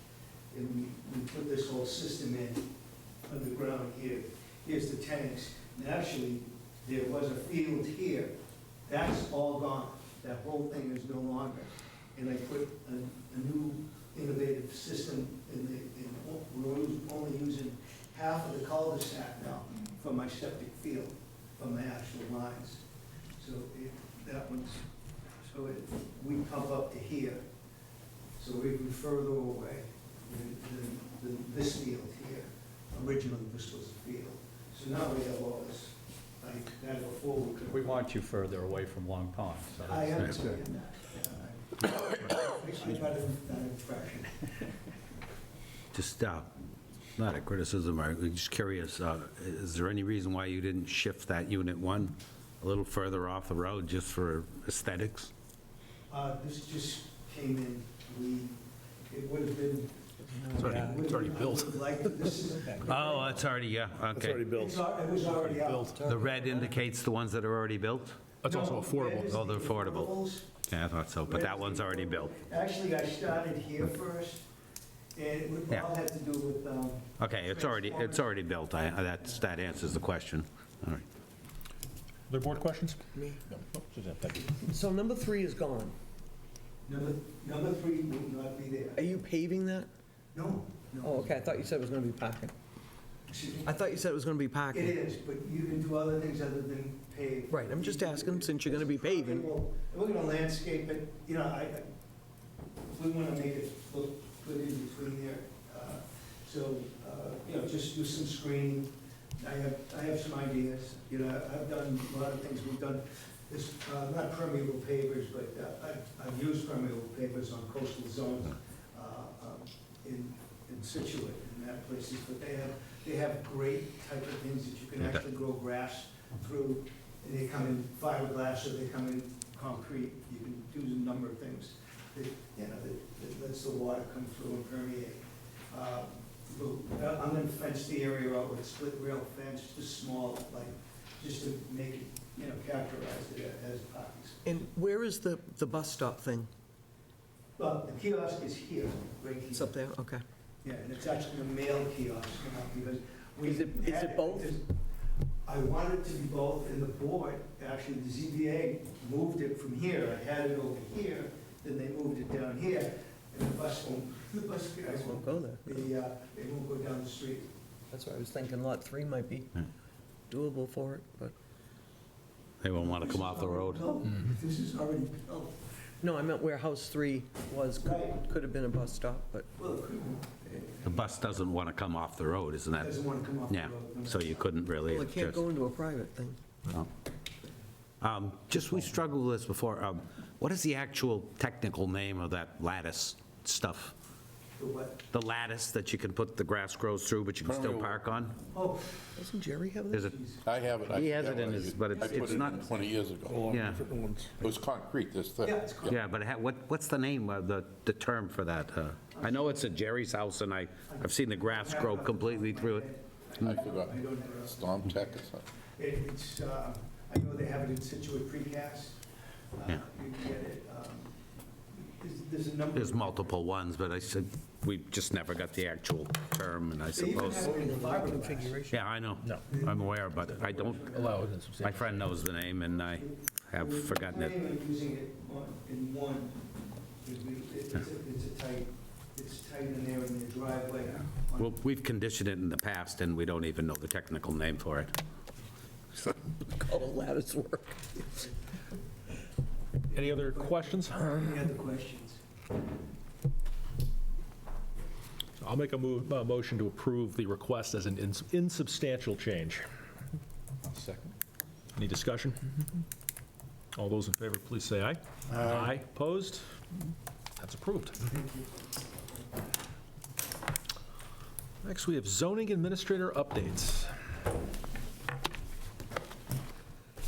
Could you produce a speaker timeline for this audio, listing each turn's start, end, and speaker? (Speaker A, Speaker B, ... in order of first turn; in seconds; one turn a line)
Speaker A: 0.5-2.7
Speaker A: 3.3-8.3
Speaker A: 8.9-22.8
Speaker A: 23.4-24.9
Speaker A: 25.4-27.4
Speaker A: 28.4-37.9
Speaker B: 37.7-40.5
Speaker A: 39.8-44.5
Speaker C: 45.9-46.5
Speaker C: 47.2-55.3
Speaker A: 56.1-58.5
Speaker A: 59.1-63.5
Speaker D: 60.4-61.3
Speaker E: 60.6-61.8
Speaker D: 62.4-63.3
Speaker C: 62.8-64.4
Speaker E: 64.1-66.1
Speaker A: 64.5-66.0
Speaker D: 65.9-66.7
Speaker C: 66.0-68.2
Speaker E: 68.4-69.4
Speaker A: 68.4-70.5
Speaker C: 69.3-70.1
Speaker C: 70.7-72.3
Speaker A: 71.2-74.5
Speaker A: 75.2-78.3
Speaker C: 77.2-81.0
Speaker E: 82.3-84.5
Speaker D: 84.6-85.9
Speaker A: 86.9-89.1
Speaker D: 88.9-89.9
Speaker A: 90.3-91.5
Speaker D: 91.0-92.5
Speaker A: 93.3-93.8
Speaker D: 93.6-95.0
Speaker A: 94.7-101.9
Speaker D: 97.5-99.5
Speaker A: 102.9-144.5
Speaker D: 144.4-146.5
Speaker A: 147.6-149.7
Speaker D: 149.5-150.2
Speaker A: 150.6-154.7
Speaker D: 153.4-154.5
Speaker A: 155.4-167.5
Speaker D: 164.9-165.8
Speaker D: 167.9-169.6
Speaker D: 170.3-171.3
Speaker C: 172.6-173.8
Speaker A: 172.8-175.6
Speaker D: 176.0-179.5
Speaker A: 177.8-178.2
Speaker A: 179.6-181.1
Speaker C: 180.8-185.4
Speaker A: 182.8-184.5
Speaker D: 184.8-186.8
Speaker C: 188.0-193.9
Speaker A: 194.6-195.1
Speaker C: 195.1-198.4
Speaker F: 197.4-198.0
Speaker A: 198.5-199.1
Speaker D: 199.2-200.1
Speaker A: 200.1-200.5
Speaker F: 200.4-206.0
Speaker C: 200.9-202.7
Speaker A: 202.0-202.8
Speaker C: 203.4-203.8
Speaker A: 205.4-206.0
Speaker C: 205.8-212.9
Speaker A: 209.1-209.7
Speaker A: 210.9-219.0
Speaker F: 213.4-215.4
Speaker A: 219.5-221.2
Speaker A: 221.8-223.4
Speaker C: 222.8-227.5
Speaker A: 226.9-228.6
Speaker D: 227.2-228.8
Speaker C: 228.7-230.9
Speaker E: 229.2-229.5
Speaker A: 229.4-231.2
Speaker E: 230.8-232.3
Speaker C: 231.6-234.3
Speaker A: 232.6-236.4
Speaker A: 237.0-241.6
Speaker C: 241.4-245.0
Speaker D: 246.5-248.0
Speaker A: 249.9-252.2
Speaker E: 249.9-251.1
Speaker E: 255.4-259.7
Speaker E: 261.8-262.8
Speaker E: 263.8-266.4
Speaker E: 267.4-268.1
Speaker A: 268.1-268.5
Speaker E: 271.6-273.9